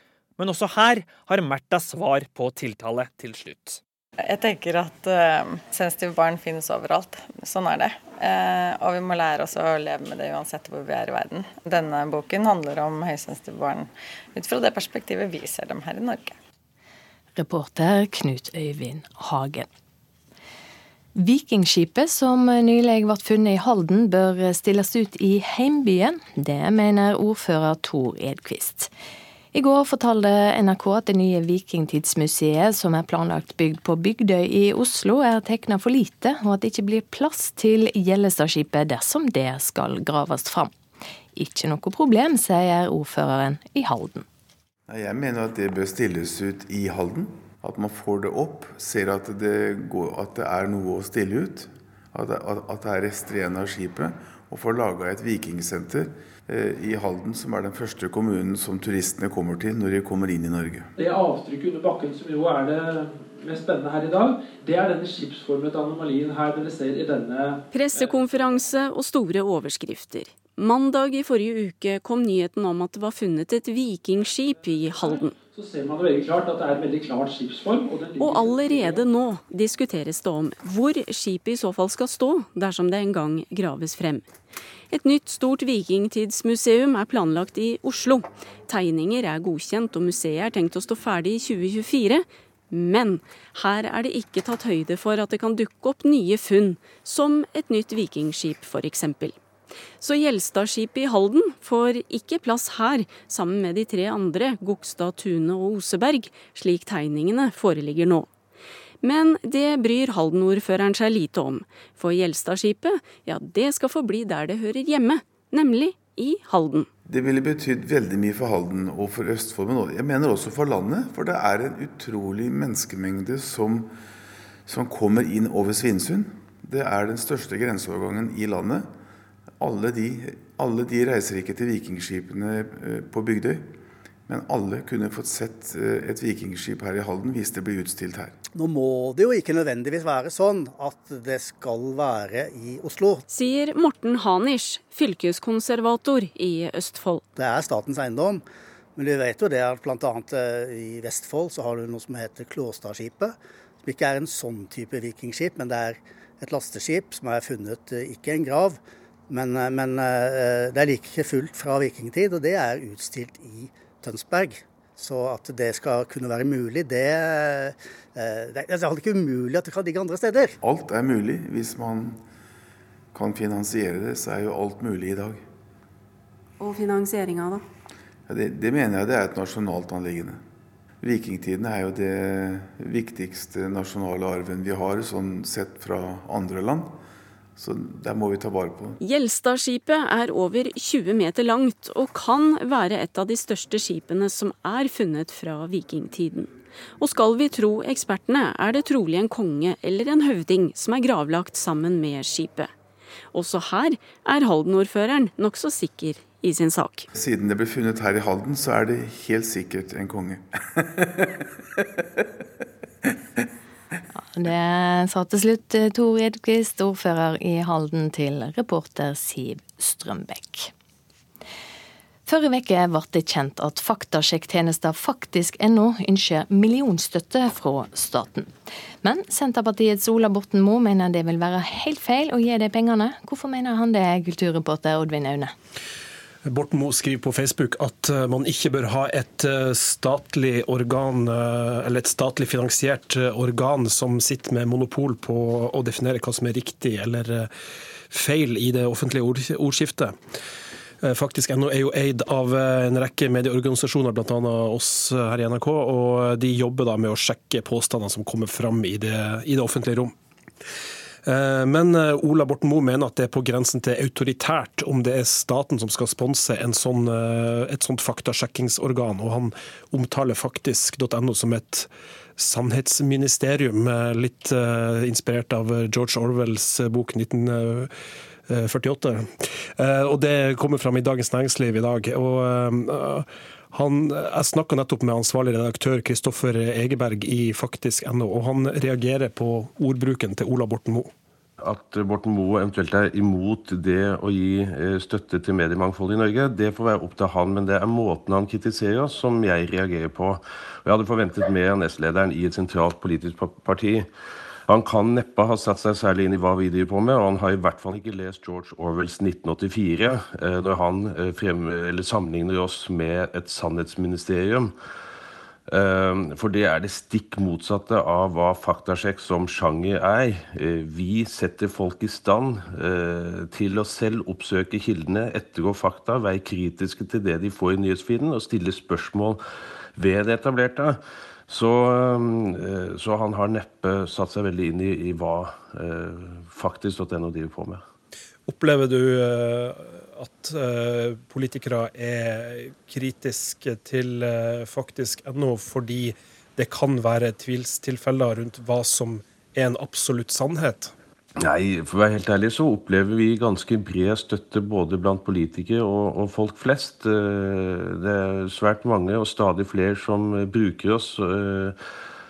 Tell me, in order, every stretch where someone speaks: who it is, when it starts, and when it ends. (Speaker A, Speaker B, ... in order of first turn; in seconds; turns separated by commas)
Speaker A: 0.4-3.8, Speaker B: 4.2-16.3, Speaker C: 17.4-19.7, Speaker C: 21.1-28.9, Speaker C: 29.5-40.7, Speaker C: 41.4-44.2, Speaker D: 44.9-60.9, Speaker E: 61.0-67.6, Speaker F: 67.7-75.3, Speaker E: 75.0-79.0, Speaker F: 78.2-84.3, Speaker F: 84.9-99.4, Speaker F: 100.0-108.3, Speaker F: 109.0-116.9, Speaker D: 117.1-123.9, Speaker D: 124.7-128.8, Speaker D: 129.6-133.7, Speaker D: 134.3-138.3, Speaker G: 138.5-143.2, Speaker F: 143.3-147.2, Speaker G: 147.3-148.4, Speaker G: 148.9-158.8, Speaker G: 159.3-170.5, Speaker D: 170.6-172.2, Speaker D: 173.1-175.4, Speaker F: 176.6-177.6, Speaker D: 178.3-180.4, Speaker D: 181.0-186.9, Speaker D: 187.6-189.0, Speaker F: 189.0-202.7, Speaker F: 203.3-207.1, Speaker D: 207.1-211.4, Speaker C: 214.3-220.7, Speaker C: 222.2-228.5, Speaker C: 229.0-235.5, Speaker H: 236.5-247.5, Speaker H: 248.1-250.1, Speaker H: 251.0-260.1, Speaker H: 261.3-277.9, Speaker H: 278.5-279.2, Speaker H: 279.8-291.1, Speaker I: 291.6-304.1, Speaker I: 304.7-314.7, Speaker I: 315.7-329.4, Speaker I: 330.0-337.8, Speaker H: 338.5-350.9, Speaker I: 351.4-361.8